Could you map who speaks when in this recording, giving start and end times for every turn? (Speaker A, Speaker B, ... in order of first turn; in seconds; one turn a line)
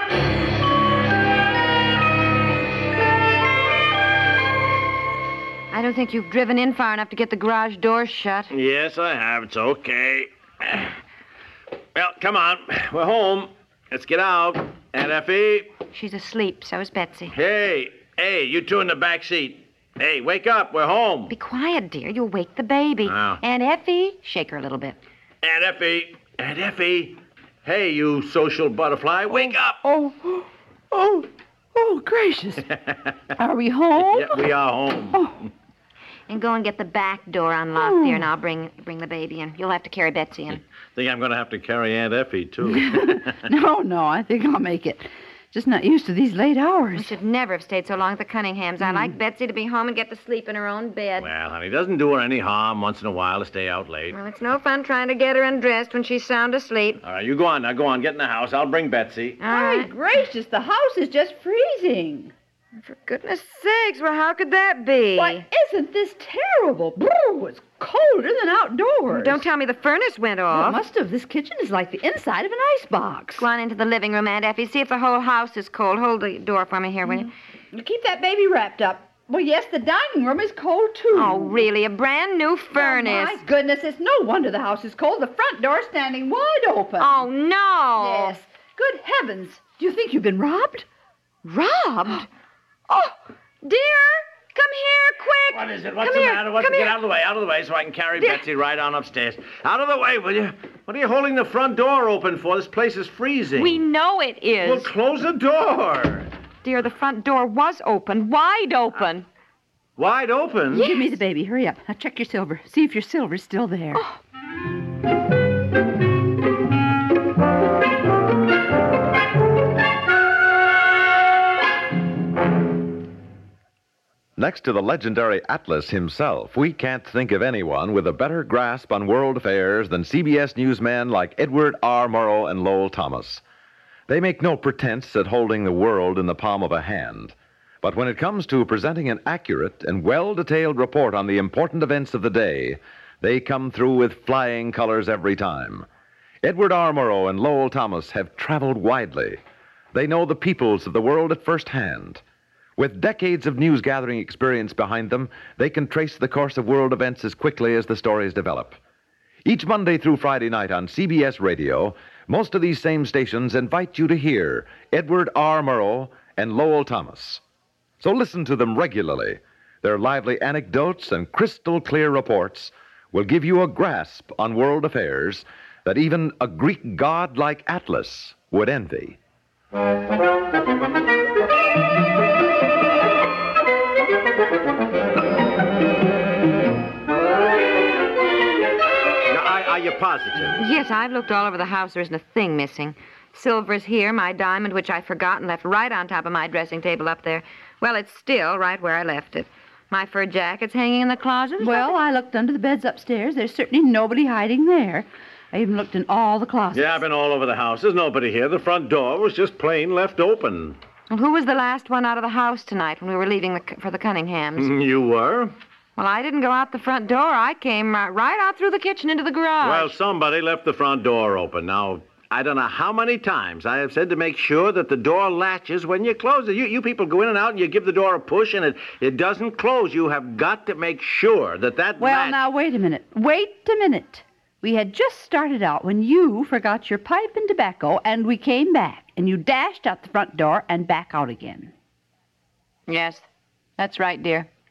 Speaker A: 5.7-8.5
Speaker B: 8.5-10.9
Speaker B: 12.0-15.8
Speaker A: 15.9-17.3
Speaker B: 17.3-21.3
Speaker A: 21.3-25.0
Speaker B: 23.1-23.4
Speaker B: 25.4-29.8
Speaker C: 29.8-32.7
Speaker B: 32.7-33.2
Speaker C: 33.4-34.4
Speaker B: 34.0-35.3
Speaker C: 35.1-35.4
Speaker A: 36.3-40.6
Speaker C: 37.8-38.3
Speaker B: 41.0-43.4
Speaker C: 42.6-47.1
Speaker A: 47.0-51.3
Speaker C: 48.8-49.1
Speaker B: 51.2-54.1
Speaker A: 54.1-57.0
Speaker B: 57.0-59.4
Speaker A: 59.4-59.9
Speaker C: 59.5-62.3
Speaker A: 62.8-65.5
Speaker C: 65.2-69.5
Speaker A: 69.1-70.8
Speaker C: 70.5-73.5
Speaker A: 73.4-77.3
Speaker C: 77.1-81.7
Speaker A: 81.1-83.4
Speaker C: 82.8-87.3
Speaker A: 87.0-88.3
Speaker C: 88.0-90.9
Speaker A: 91.5-92.3
Speaker A: 92.9-97.0
Speaker B: 95.5-103.8
Speaker A: 103.6-104.9
Speaker B: 104.6-106.3
Speaker A: 106.6-109.3
Speaker B: 110.0-110.9
Speaker A: 110.7-111.2
Speaker C: 110.8-114.1
Speaker D: 124.4-133.4
Speaker D: 134.1-145.9
Speaker D: 146.4-149.4
Speaker D: 149.9-152.2
Speaker D: 152.8-158.8
Speaker D: 159.4-167.4
Speaker D: 168.0-179.2
Speaker B: 189.3-190.6
Speaker A: 190.6-201.9
Speaker C: 201.6-207.0
Speaker B: 206.7-210.8
Speaker A: 211.1-214.7
Speaker B: 214.6-215.5
Speaker A: 216.0-219.9
Speaker B: 219.6-232.5
Speaker C: 232.0-241.7
Speaker A: 242.9-243.2
Speaker A: 243.8-244.5